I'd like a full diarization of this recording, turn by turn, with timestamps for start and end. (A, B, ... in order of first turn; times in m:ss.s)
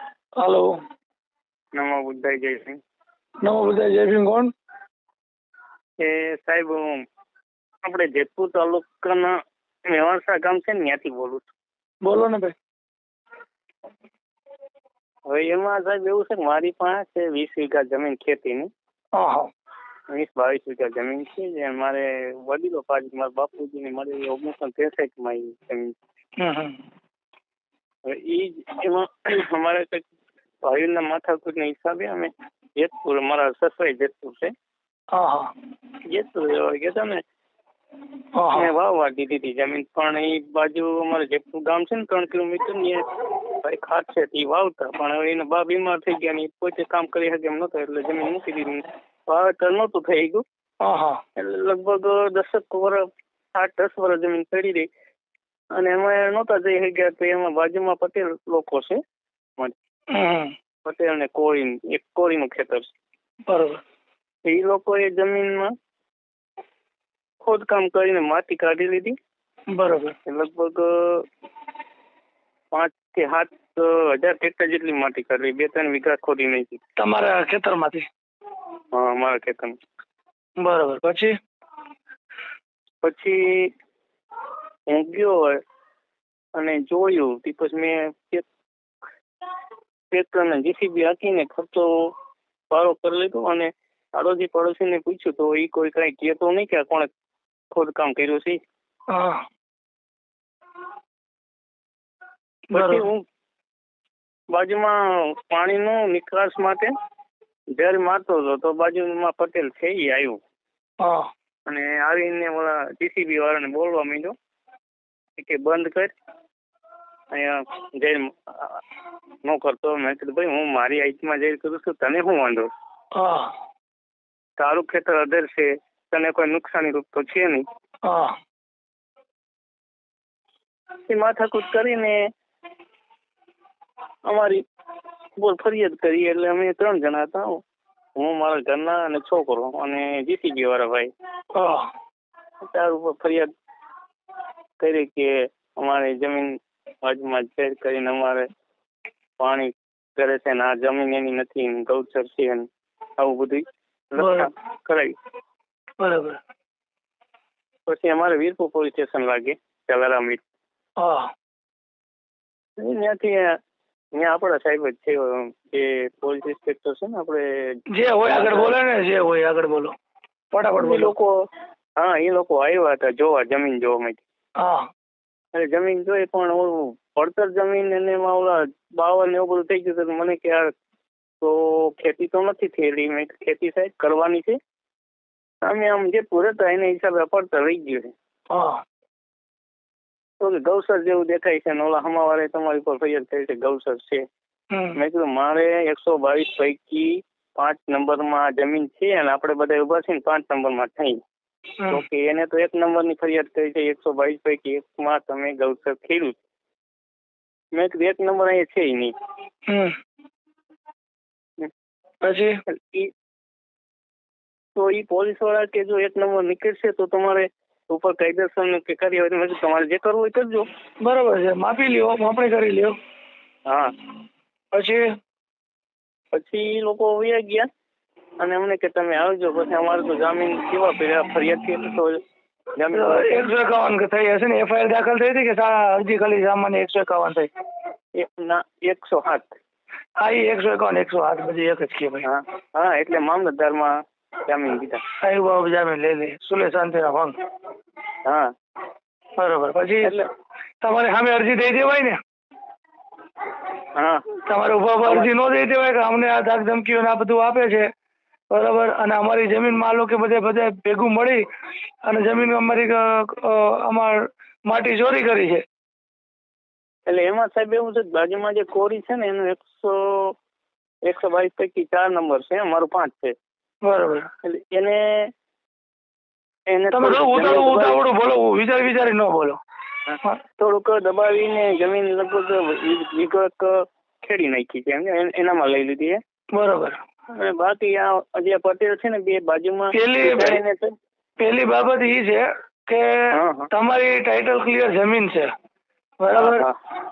0:00.4-0:00.8 A
0:01.8-0:02.8 B
0:03.4-0:04.5 A
0:06.0-0:06.9 B
0:07.8-0:09.3 B
0:09.9-0:11.5 B
0:12.0-0:12.5 A
0:15.3-0:18.7 B
0:19.1-0:19.5 A
0:20.1-0:25.9 B
0:26.4-0:26.8 A
0:28.0-0:30.0 B
0:30.6-0:34.5 B
0:35.1-0:35.5 A
0:36.1-0:37.2 B
0:38.3-0:38.7 A
0:38.5-0:50.4 B
0:50.8-0:51.2 A
0:51.4-0:53.0 B
0:53.5-0:54.9 B
0:55.8-0:59.0 B
1:00.1-1:00.5 A
1:00.8-1:02.9 B
1:03.5-1:03.8 A
1:04.4-1:05.7 B
1:07.4-1:09.1 B
1:09.7-1:10.2 A
1:10.3-1:11.2 B
1:12.7-1:16.8 B
1:17.0-1:18.0 A
1:18.9-1:19.8 B
1:20.6-1:21.3 A
1:23.0-1:23.7 B
1:24.9-1:25.6 B
1:26.6-1:28.4 B
1:30.1-1:32.1 B
1:32.7-1:37.1 B
1:37.7-1:38.6 B
1:39.1-1:39.4 A
1:42.7-1:43.0 A
1:42.7-1:43.2 B
1:44.5-1:46.9 B
1:47.8-1:50.4 B
1:51.0-1:51.3 A
1:51.7-1:54.3 B
1:55.4-1:56.1 B
1:57.3-1:58.8 B
1:59.4-2:02.7 B
2:03.1-2:03.5 A
2:04.6-2:07.6 B
2:08.0-2:08.3 A
2:11.1-2:12.2 B
2:14.2-2:14.6 B
2:15.4-2:17.6 B
2:18.2-2:21.1 B
2:21.5-2:21.9 A
2:22.6-2:23.5 B
2:24.8-2:28.4 B
2:29.4-2:32.7 B
2:33.2-2:35.2 B
2:34.2-2:34.5 A
2:36.0-2:36.4 A
2:37.9-2:40.4 B
2:41.0-2:41.3 A
2:42.8-2:43.6 B
2:44.2-2:47.4 B
2:47.9-2:49.9 A
2:48.3-2:48.7 B
2:50.5-2:51.1 A
2:50.8-2:51.3 B
2:52.0-2:54.2 B
2:54.6-2:54.9 A
2:55.5-3:00.7 B
3:01.4-3:04.6 B
3:05.6-3:08.1 B
3:08.5-3:08.8 A
3:10.4-3:14.2 B
3:14.7-3:15.0 A
3:15.0-3:21.2 B
3:21.9-3:26.4 B
3:27.7-3:29.1 B
3:32.2-3:32.5 A
3:32.7-3:33.1 B
3:34.8-3:40.6 B
3:41.0-3:42.9 A
3:43.7-3:43.9 B
3:44.7-3:45.1 A
3:46.3-3:47.7 B
3:48.4-3:52.2 B
3:52.8-3:53.5 B
3:52.9-3:57.5 A
3:58.2-3:59.6 B
4:00.2-4:02.2 A
4:02.2-4:05.0 B
4:05.2-4:07.3 A
4:08.2-4:08.5 B
4:09.4-4:10.1 A
4:10.8-4:12.2 A
4:13.9-4:14.2 B
4:14.5-4:17.9 A
4:18.5-4:21.4 A
4:22.0-4:25.6 A
4:27.1-4:30.3 B
4:31.0-4:33.3 B
4:33.8-4:34.3 A
4:34.4-4:35.3 B
4:36.7-4:38.0 B
4:36.9-4:39.6 A
4:40.1-4:46.2 B
4:46.5-4:47.0 A
4:47.3-4:50.9 B
4:49.9-4:50.6 A
4:51.4-4:55.5 A
4:53.3-4:53.7 B
4:56.2-4:56.7 A
4:56.3-4:56.7 B